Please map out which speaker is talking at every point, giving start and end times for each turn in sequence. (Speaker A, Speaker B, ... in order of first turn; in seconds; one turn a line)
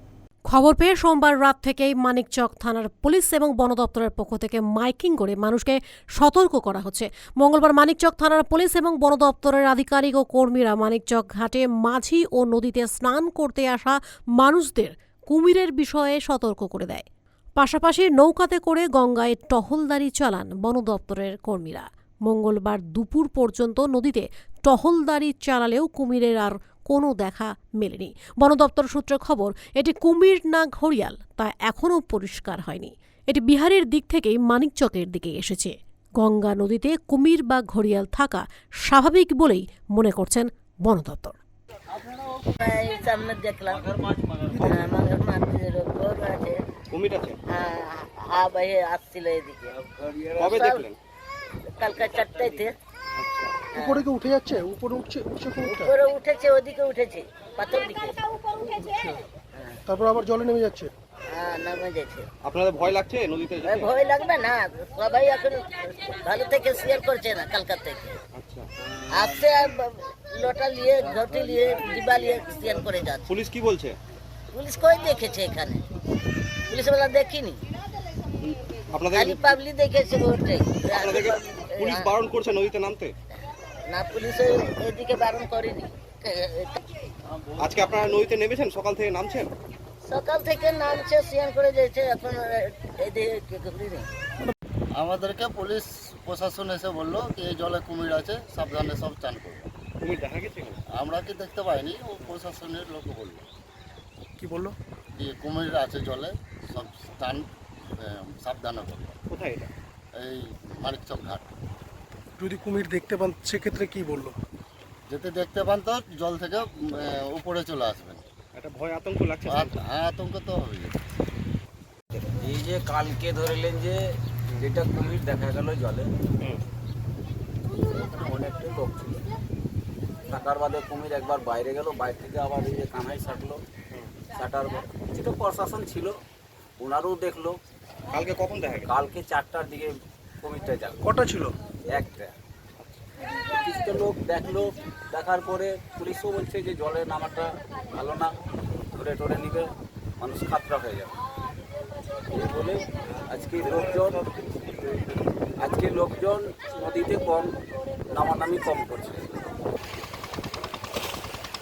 Speaker A: 0.5-17.1
Speaker A: 17.6-41.4
Speaker B: 42.5-43.9
Speaker C: 44.5-44.8
Speaker B: 44.6-46.6
Speaker D: 46.9-47.4
Speaker B: 47.5-49.8
Speaker D: 50.4-51.0
Speaker B: 50.4-50.8
Speaker B: 51.7-52.7
Speaker D: 53.2-53.6
Speaker B: 53.7-54.1
Speaker C: 53.7-55.9
Speaker B: 55.6-58.5
Speaker C: 58.6-59.2
Speaker B: 59.5-59.8
Speaker C: 59.9-60.9
Speaker B: 61.3-62.3
Speaker D: 62.4-63.9
Speaker B: 63.6-68.2
Speaker D: 68.3-68.7
Speaker B: 69.1-73.3
Speaker D: 73.3-74.0
Speaker B: 74.5-75.8
Speaker B: 76.7-77.6
Speaker D: 78.4-79.5
Speaker B: 79.1-82.1
Speaker D: 80.9-83.1
Speaker B: 83.9-86.8
Speaker D: 87.6-89.5
Speaker B: 90.1-94.1
Speaker E: 94.9-99.7
Speaker D: 100.0-100.8
Speaker E: 100.9-103.5
Speaker C: 104.4-104.8
Speaker E: 105.2-107.5
Speaker E: 108.0-109.2
Speaker D: 109.3-109.7
Speaker E: 110.2-111.5
Speaker C: 112.4-114.3
Speaker E: 115.1-118.2
Speaker D: 118.5-119.8
Speaker E: 119.5-121.0
Speaker F: 122.1-124.0
Speaker F: 124.5-126.1
Speaker F: 127.7-129.2
Speaker F: 130.3-133.6
Speaker F: 134.3-136.1
Speaker F: 136.8-137.6
Speaker D: 138.1-138.9
Speaker F: 138.8-141.0
Speaker C: 141.0-141.5
Speaker F: 141.9-142.3
Speaker F: 143.6-148.3
Speaker F: 148.9-151.1
Speaker F: 152.3-154.2
Speaker F: 155.6-157.5
Speaker F: 158.1-159.3